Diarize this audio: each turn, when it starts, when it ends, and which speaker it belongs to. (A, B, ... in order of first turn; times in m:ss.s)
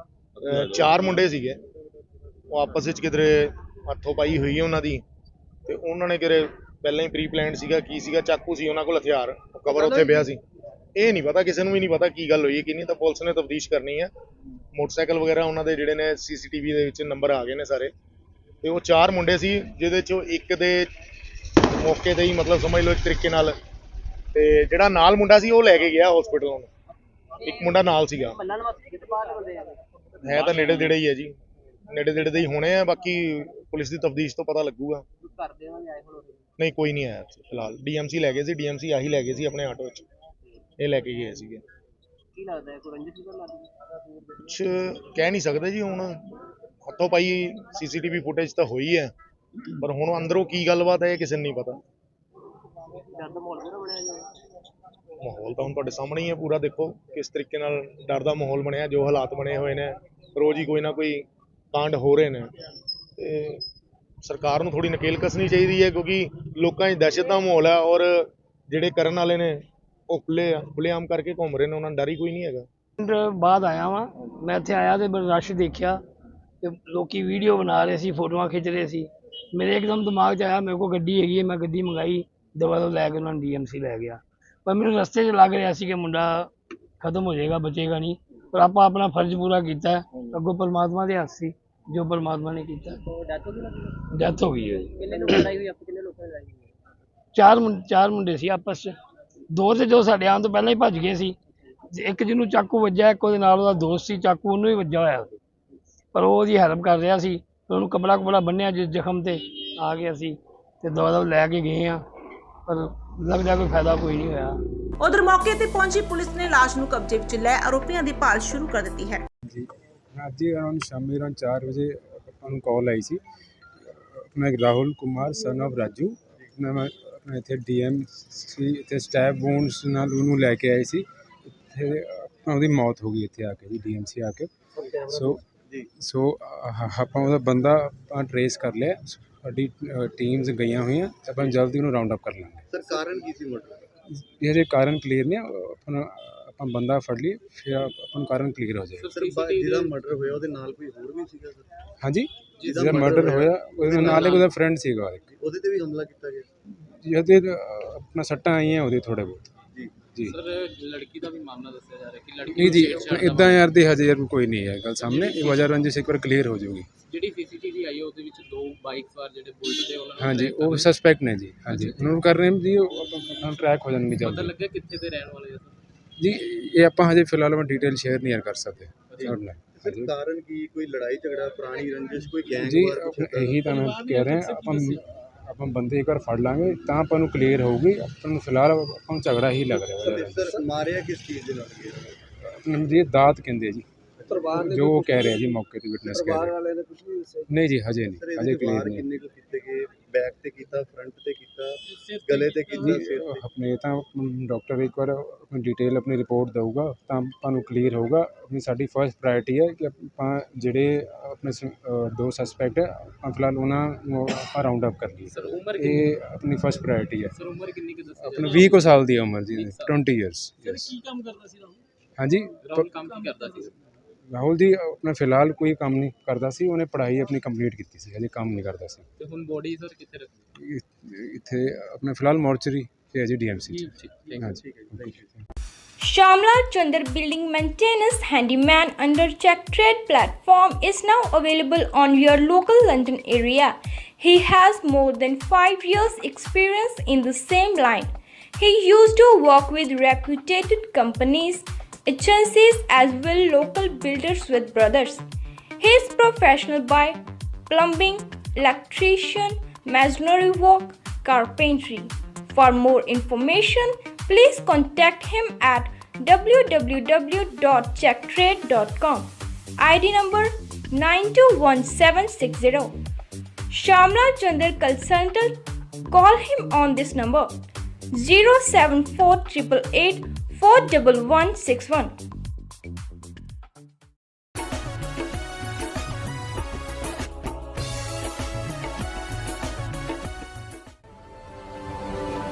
0:00.5-0:01.6 A
0:00.5-0:01.0 B
0:02.5-0:05.0 A
0:05.7-0:10.4 A
0:09.7-0:10.3 C
0:11.0-0:14.1 A
0:14.7-0:17.9 A
0:18.6-0:20.9 A
0:21.8-0:23.6 A
0:24.4-0:26.7 A
0:27.5-0:28.4 A
0:27.5-0:31.0 C
0:30.2-0:31.3 A
0:31.9-0:35.0 A
0:35.2-0:36.5 C
0:36.6-0:40.1 A
0:40.8-0:41.6 A
0:42.4-0:44.3 C
0:44.5-0:46.2 A
0:46.9-0:49.1 A
0:49.8-0:51.8 A
0:53.1-0:54.3 C
0:55.2-1:02.5 A
1:03.2-1:03.6 A
1:04.2-1:12.7 A
1:13.0-1:16.0 D
1:16.6-1:26.5 D
1:27.0-1:33.0 D
1:33.1-1:34.0 C
1:34.1-1:35.4 D
1:35.0-1:36.7 C
1:37.3-1:38.9 D
1:39.5-1:41.4 D
1:41.9-1:45.4 D
1:46.1-1:52.0 D
1:52.7-1:54.6 D
1:55.0-1:59.2 E
1:59.5-2:03.2 F
2:03.8-2:14.5 F
2:15.1-2:15.4 F
2:16.0-2:22.7 F
2:22.7-2:23.8 B
2:24.1-2:29.1 F
2:29.0-2:30.4 G
2:29.1-2:31.7 B
2:32.0-2:35.3 F
2:32.6-2:33.1 G
2:32.6-2:34.5 B
2:34.0-2:34.5 G
2:35.3-2:36.5 B
2:36.8-2:39.5 F
2:40.1-2:40.4 F
2:40.2-2:43.7 G
2:42.5-2:46.9 F
2:45.0-2:45.7 G
2:47.1-2:50.9 G
2:50.2-2:54.6 F
2:51.7-2:52.1 G
2:54.2-2:55.8 G
2:56.2-3:00.2 F
2:59.1-2:59.4 G
2:59.2-3:03.8 B
3:02.6-3:10.5 F
3:03.7-3:05.0 G
3:10.0-3:12.2 B
3:12.4-3:13.9 F
3:14.2-3:15.5 B
3:14.5-3:16.6 F
3:16.1-3:17.5 B
3:17.5-3:19.1 F
3:18.2-3:23.4 B
3:21.9-3:23.2 G
3:22.8-3:37.4 F
3:35.3-3:36.1 G
3:37.3-3:40.0 G
3:38.2-3:41.0 F
3:40.6-3:41.8 G
3:42.2-3:43.0 F
3:42.6-3:43.7 G
3:44.3-3:49.1 F
3:49.2-3:50.4 G
3:50.6-3:55.3 F
3:53.7-3:54.6 G
3:54.7-3:55.2 B
3:56.0-4:15.2 H
4:15.8-4:33.0 H
4:33.7-4:35.5 H
4:36.1-4:37.5 H
4:38.1-4:42.1 H